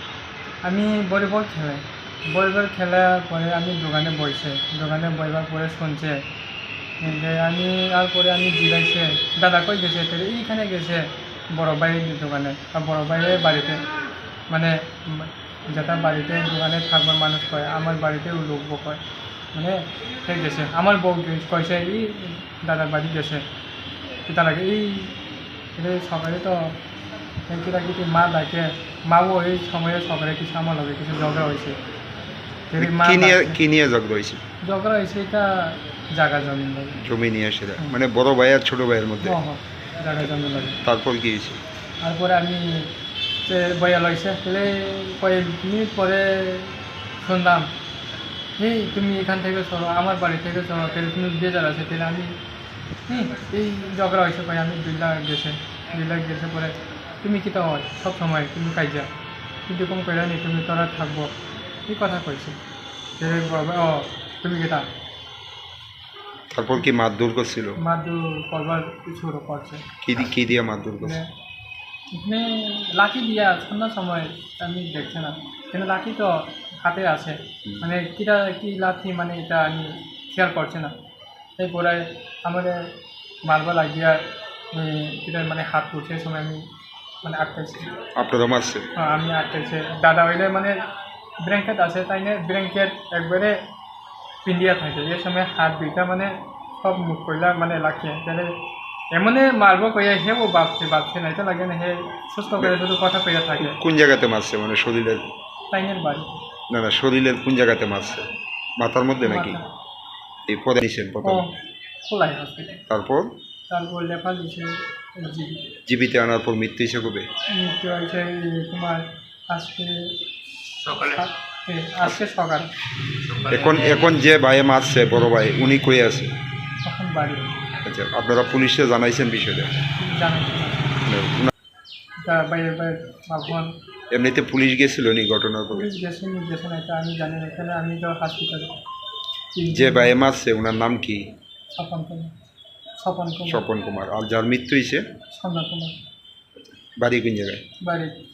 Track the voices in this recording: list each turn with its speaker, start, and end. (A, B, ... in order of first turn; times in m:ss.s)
0:00.6-0:06.2 A
0:07.0-0:13.8 A
0:14.5-0:19.0 A
0:19.5-0:23.4 A
0:24.3-0:25.2 A
0:25.8-0:26.8 A
0:27.5-0:31.8 A
0:32.7-0:33.6 A
0:32.8-0:34.4 B
0:34.6-0:37.0 A
0:37.0-0:39.4 B
0:39.2-0:40.8 A
0:40.8-0:41.6 B
0:42.0-0:42.9 A
0:43.4-0:47.7 A
0:48.6-0:52.3 A
0:53.1-0:59.1 A
0:59.7-1:01.3 A
1:01.9-1:02.6 A
1:03.2-1:04.9 A
1:06.5-1:07.8 B
1:07.8-1:09.8 A
1:10.0-1:11.2 B
1:11.0-1:11.3 A
1:12.1-1:20.9 A
1:21.6-1:22.9 A
1:23.4-1:24.2 A
1:24.7-1:26.6 A
1:27.2-1:28.0 A
1:28.1-1:28.9 B
1:28.9-1:30.9 A
1:31.4-1:33.6 A
1:34.4-1:38.6 A
1:39.1-1:43.8 A
1:43.7-1:45.3 B
1:45.7-1:46.4 A
1:46.7-1:49.6 B
1:49.2-1:49.7 A
1:50.5-1:51.4 B
1:51.2-1:52.8 A
1:52.9-1:53.3 B
1:53.7-1:55.7 A
1:55.9-1:57.3 B
1:57.5-2:00.2 A
2:00.7-2:02.7 A
2:03.3-2:06.3 B
2:06.8-2:07.5 A
2:07.8-2:09.8 B
2:10.0-2:10.9 A
2:11.0-2:11.5 B
2:12.2-2:13.7 A
2:14.1-2:15.9 B
2:15.7-2:18.7 A
2:19.5-2:20.2 A
2:19.7-2:21.3 B
2:21.7-2:22.3 A
2:23.0-2:23.6 A
2:23.5-2:25.0 B
2:25.3-2:26.0 A
2:27.0-2:27.6 B
2:27.8-2:28.2 A